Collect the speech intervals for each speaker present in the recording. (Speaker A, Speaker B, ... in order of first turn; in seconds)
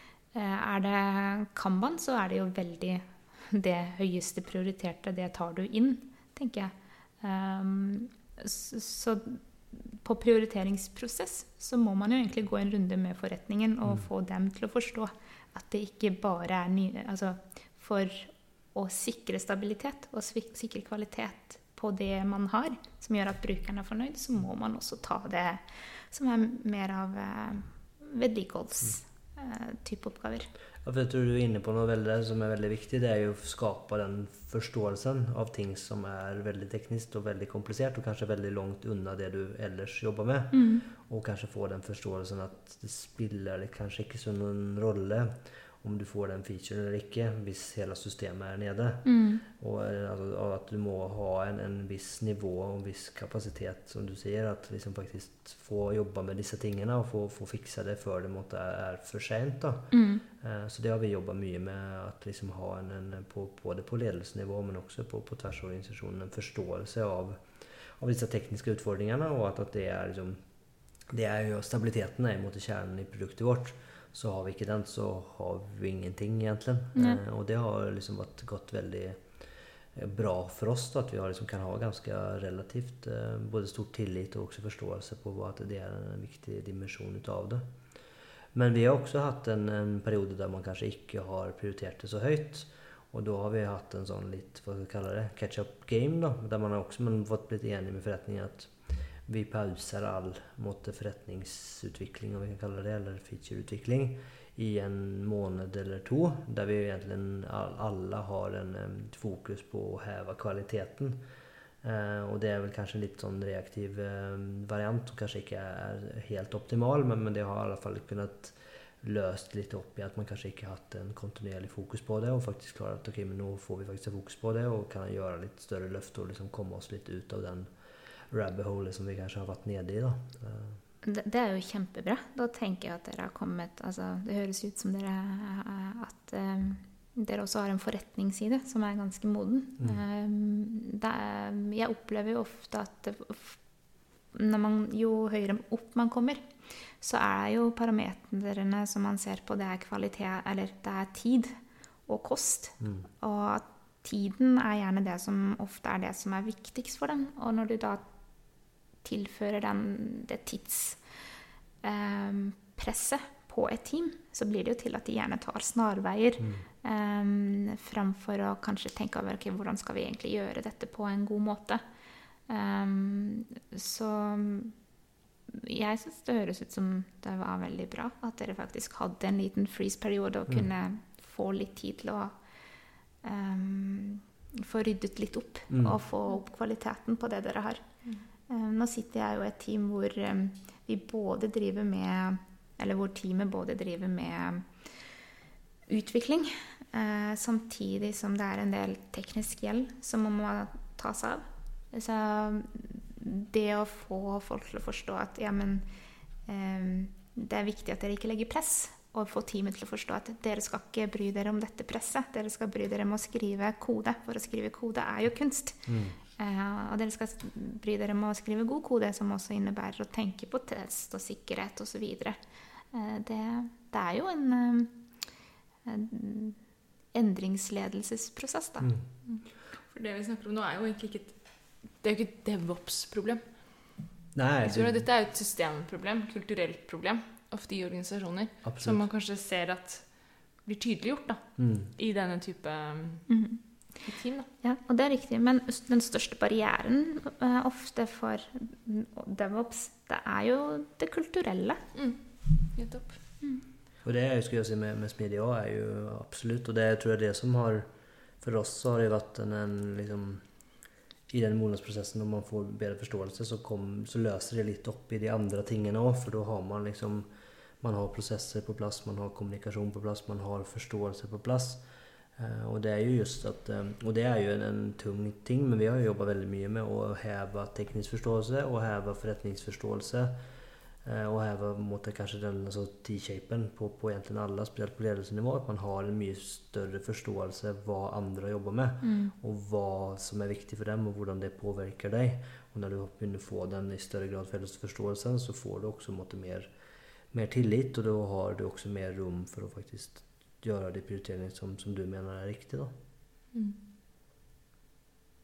Speaker A: 0.3-30.5, 40.5-40.8, 49.0-49.4, 59.9-60.2, 76.9-77.2, 131.0-143.6, 144.3-146.5, 147.0-151.6, 152.1-158.1, 159.0-161.0, 161.8-171.8, 172.5-174.7, 175.5-182.4, 183.2-187.9, 188.5-194.7, 195.9-205.9, 206.5-222.4, 222.9-225.0, 225.8-226.6, 227.1-228.9, 243.3-243.6, 244.6-251.8, 289.0-289.3
Speaker B: 30.8-70.4, 71.1-79.2, 79.9-87.7, 88.5-111.2, 111.8-127.7, 128.3-130.8, 185.7-186.0, 215.9-216.2, 234.3-235.0, 238.7-239.0, 241.6-241.9, 254.0-257.9, 258.4-260.4, 261.3-267.3, 267.8-271.8, 272.4-280.4, 281.0-296.7, 297.3-302.9
Speaker C: 229.2-234.0, 234.6-243.3, 244.0-244.5, 251.9-253.2